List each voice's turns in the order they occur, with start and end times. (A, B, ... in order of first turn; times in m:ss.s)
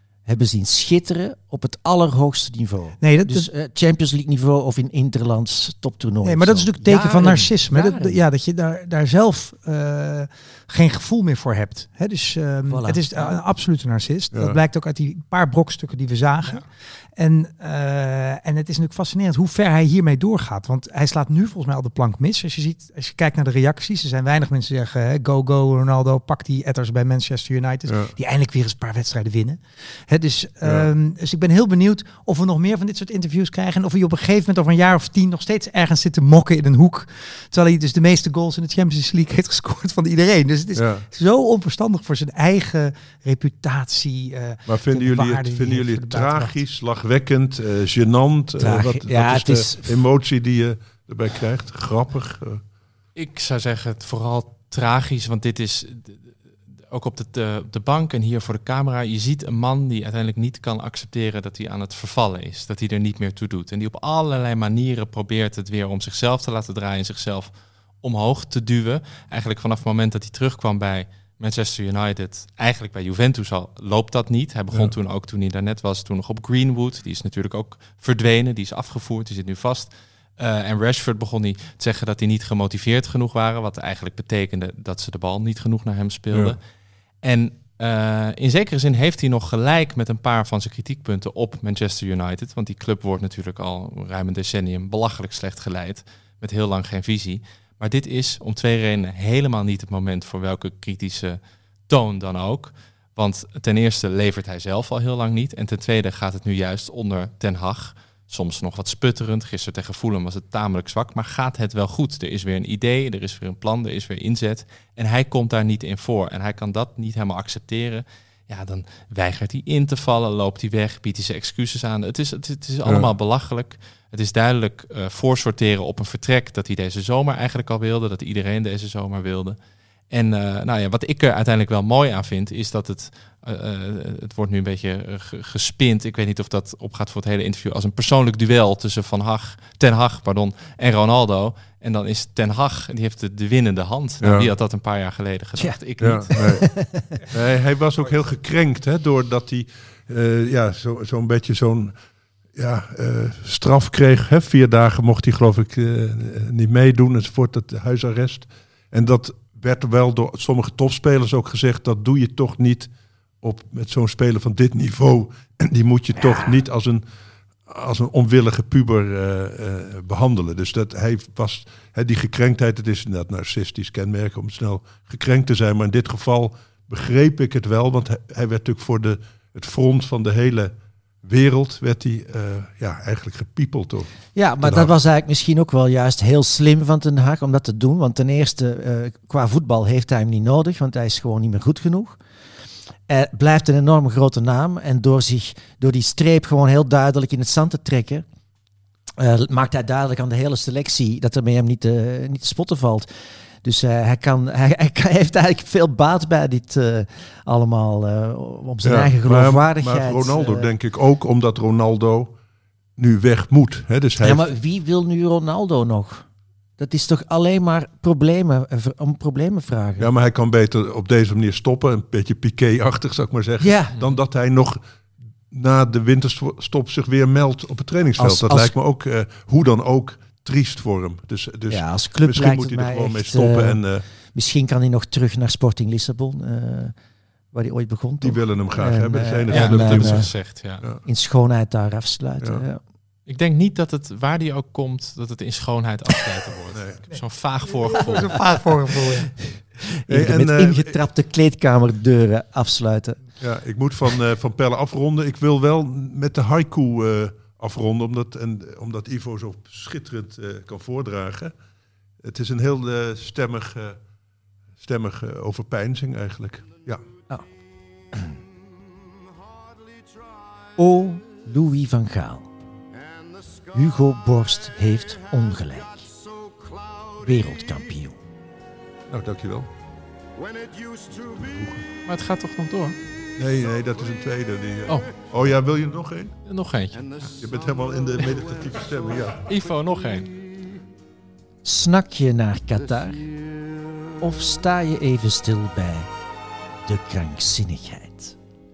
0:00.2-0:08.2 A
0:03.0-0:03.5 B
0:06.2-0:16.6 B
0:12.7-0:13.4 A
0:14.3-0:14.6 C
0:17.2-0:46.6 B
0:27.9-0:28.1 C
0:30.6-0:30.9 C
0:40.7-0:41.1 C
0:44.6-0:52.6 C
0:48.6-0:50.0 A
0:53.1-1:26.6 D
1:26.3-1:26.6 C
1:27.2-2:09.6 D
2:02.8-2:03.1 C
2:10.1-2:26.4 D
2:24.2-2:24.5 C
2:26.0-2:26.6 C
2:26.3-2:27.1 A
2:27.3-2:31.9 C
2:32.5-2:47.0 C
2:46.2-2:46.5 A
2:47.6-3:04.9 C
3:04.3-3:12.2 A
3:13.1-3:18.2 A
3:19.2-3:23.1 A
3:23.6-3:30.7 A
3:28.8-3:32.4 C
3:33.0-3:34.5 C
3:34.2-3:36.2 A
3:36.8-3:40.1 A
3:40.0-3:44.8 C
3:43.6-3:44.0 A
3:45.5-3:54.0 C
3:48.2-3:48.7 A
3:51.7-3:56.9 A
3:57.5-4:00.3 A
3:58.2-4:00.3 C
3:59.5-4:00.8 D
4:01.0-4:02.8 A
4:03.3-4:08.4 D
4:06.7-4:07.0 C
4:07.1-4:09.3 B
4:09.6-4:13.2 A
4:10.1-4:11.0 C
4:13.4-4:21.5 C
4:22.2-4:24.0 C
4:24.8-4:27.0 C
4:26.6-4:31.8 E
4:30.8-4:32.5 A
4:32.9-4:38.1 E
4:33.7-4:36.1 A
4:37.2-4:38.2 A
4:39.1-4:39.7 C
4:40.3-4:42.1 E
4:41.4-4:41.8 C
4:42.0-4:43.0 D
4:43.1-4:45.5 E
4:43.4-4:46.3 C
4:46.4-4:47.3 D
4:46.9-4:50.8 E
4:47.4-4:49.4 C
4:49.5-4:50.3 D
4:51.6-4:53.2 A
4:52.7-4:54.7 E
4:54.2-4:56.1 A
4:56.8-4:58.3 A